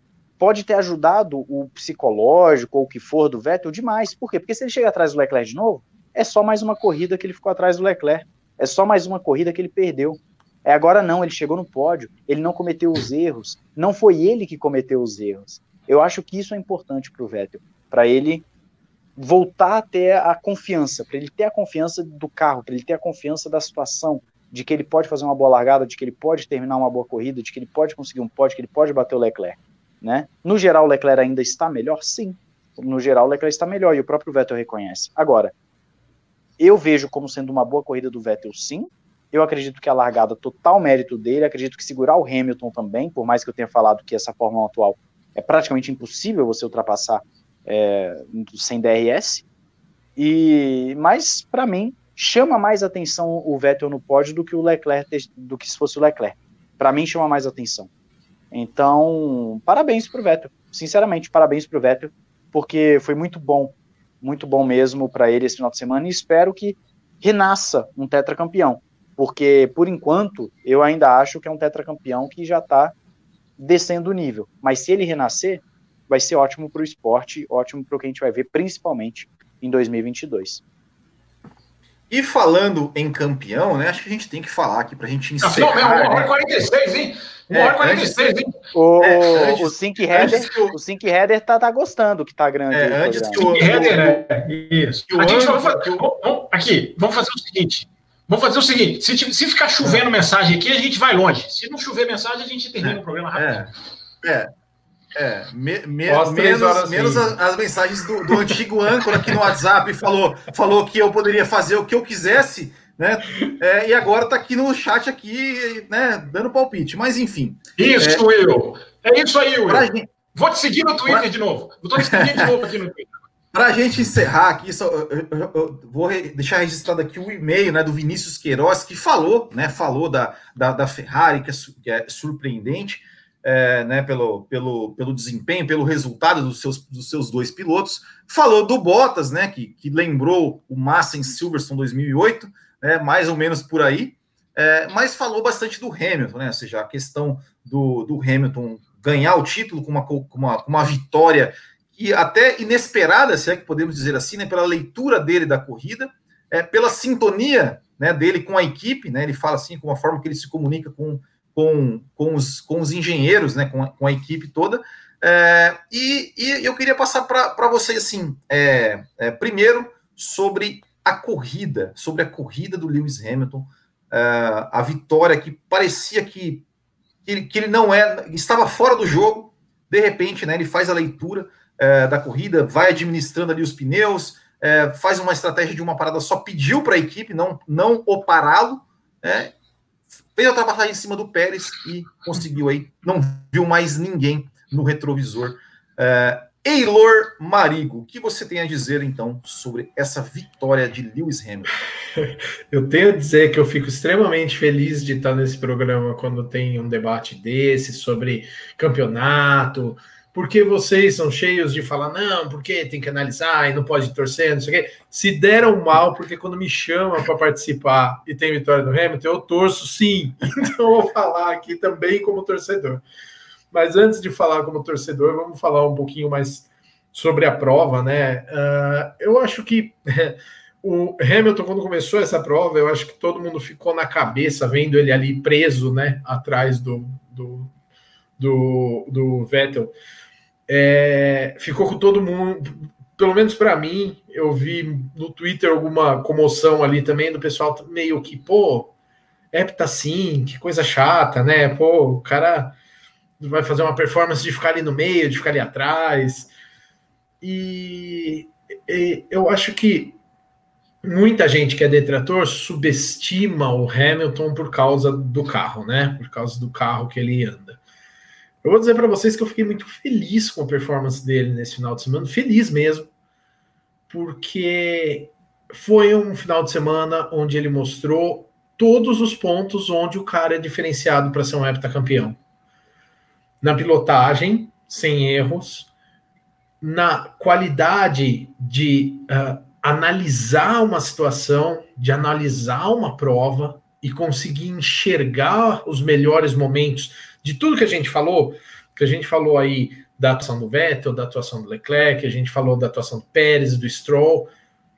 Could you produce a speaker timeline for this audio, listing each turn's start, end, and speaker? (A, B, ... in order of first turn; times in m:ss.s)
0:00.4-0:18.5 A
0:19.2-0:35.5 A
0:36.6-0:49.4 A
0:50.2-0:57.9 A
0:58.5-1:13.0 A
1:13.6-1:20.6 A
1:22.1-1:26.3 B
1:25.4-1:28.6 C
1:27.5-1:28.2 B
1:28.7-1:33.4 A
1:29.0-1:30.8 B
1:32.7-1:34.3 B
1:33.4-1:43.6 C
1:35.1-1:36.1 B
1:39.8-1:40.1 B
1:42.8-1:43.7 B
1:44.2-1:44.5 B
1:45.1-1:58.2 B
1:46.1-1:47.4 D
1:48.3-1:48.6 D
1:57.8-2:03.1 C
1:59.7-2:00.1 B
2:02.0-2:02.5 B
2:03.5-2:56.6 B
2:57.3-3:09.5 B
3:10.4-3:21.7 B
3:22.2-3:43.0 D
3:43.7-3:57.7 D
3:58.4-3:59.9 D
4:00.7-4:08.9 D
4:09.5-4:12.8 D
4:13.4-4:16.5 D
4:17.4-4:20.2 D
4:21.0-4:27.8 D
4:28.6-4:33.1 D
4:34.1-4:42.4 D
4:43.6-4:45.9 D
4:46.8-5:04.5 D